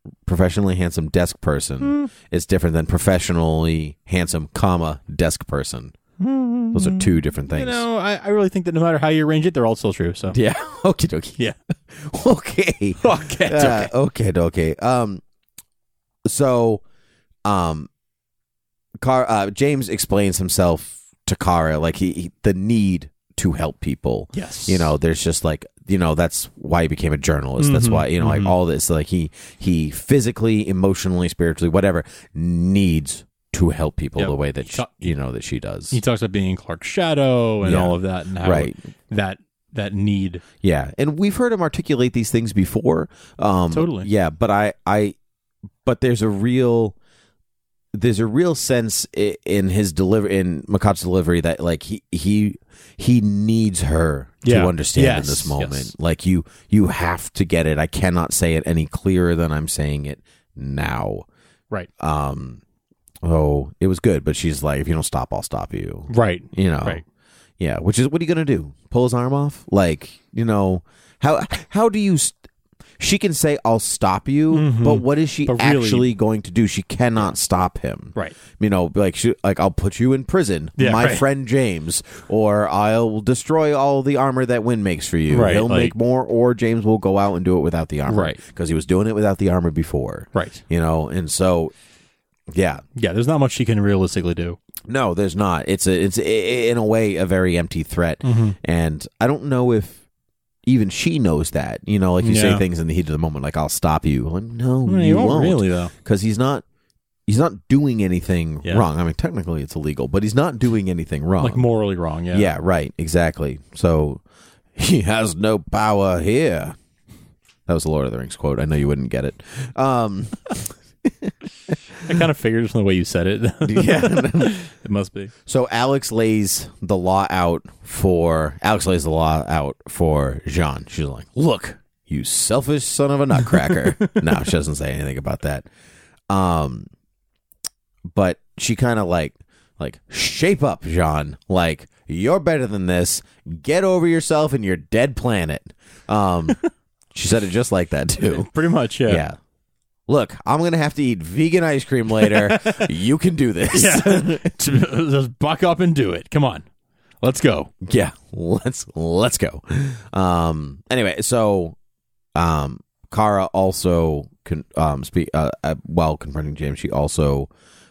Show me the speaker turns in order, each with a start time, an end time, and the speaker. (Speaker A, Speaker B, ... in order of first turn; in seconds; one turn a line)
Speaker A: 0.3-6.0
Speaker B: 1.8-2.1
Speaker B: 6.2-10.4
Speaker A: 6.7-7.8
Speaker A: 10.3-11.4
Speaker A: 11.9-15.2
Speaker B: 13.0-13.9
Speaker A: 16.2-16.8
Speaker A: 17.5-17.9
Speaker A: 19.0-36.0
Speaker B: 24.3-24.9
Speaker B: 27.6-28.6
Speaker B: 34.2-35.1
Speaker B: 35.9-40.4
Speaker A: 37.6-38.7
Speaker A: 40.6-45.2
Speaker B: 43.7-44.1
Speaker A: 45.8-47.0
Speaker A: 47.9-61.3
Speaker B: 54.4-55.9
Speaker A: 62.0-62.6
Speaker A: 63.2-67.0
Speaker B: 66.1-67.0
Speaker A: 67.6-72.4
Speaker A: 73.0-91.7
Speaker B: 74.5-76.1
Speaker B: 80.8-81.3
Speaker B: 85.3-85.9
Speaker B: 88.1-88.4
Speaker B: 90.3-90.6
Speaker A: 92.5-92.8
Speaker B: 93.0-94.6
Speaker A: 94.9-100.0
Speaker B: 98.2-98.6
Speaker A: 100.7-106.6
Speaker B: 102.2-102.7
Speaker B: 104.8-105.9
Speaker A: 107.3-111.7
Speaker B: 111.4-112.5
Speaker A: 112.3-114.2
Speaker A: 114.8-116.8
Speaker A: 117.7-122.2
Speaker B: 122.0-125.3
Speaker A: 123.6-124.6
Speaker A: 125.5-135.7
Speaker B: 133.4-134.4
Speaker A: 136.3-136.9
Speaker A: 138.1-146.6
Speaker A: 147.1-148.5
Speaker B: 148.3-149.3
Speaker A: 149.0-149.4
Speaker A: 150.1-154.5
Speaker B: 152.2-152.9
Speaker B: 153.7-156.7
Speaker B: 157.2-157.7
Speaker A: 157.8-161.8
Speaker A: 162.3-167.5